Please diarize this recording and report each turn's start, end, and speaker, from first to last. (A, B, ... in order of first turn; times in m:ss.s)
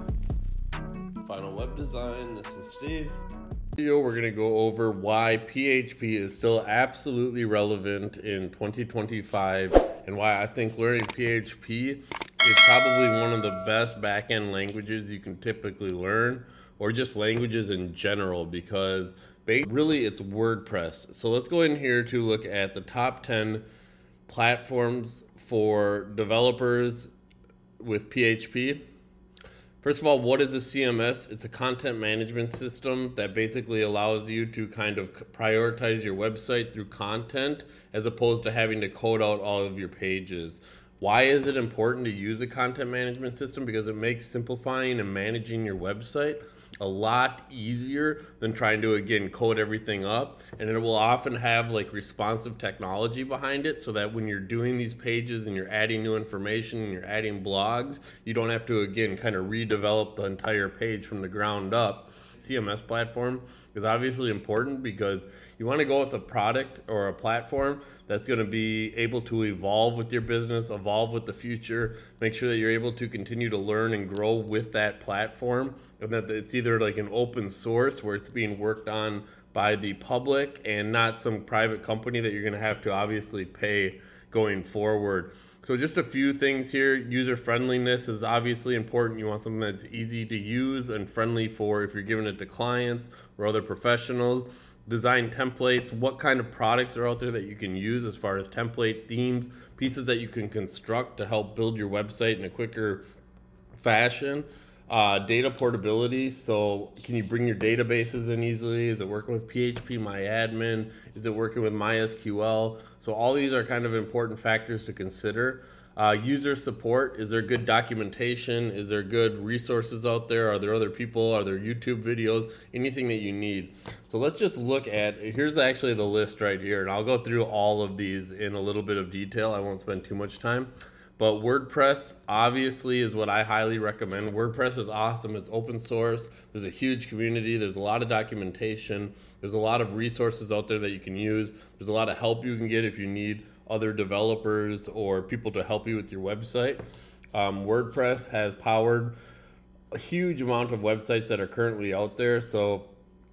0:01.2-0:03.2 A
0:03.8-0:23.6 A
0:24.3-0:27.1 A
0:27.8-0:28.8 A
0:29.8-1:43.0 A
1:43.8-2:26.8 A
2:27.3-2:29.1 A
2:29.9-2:32.9 A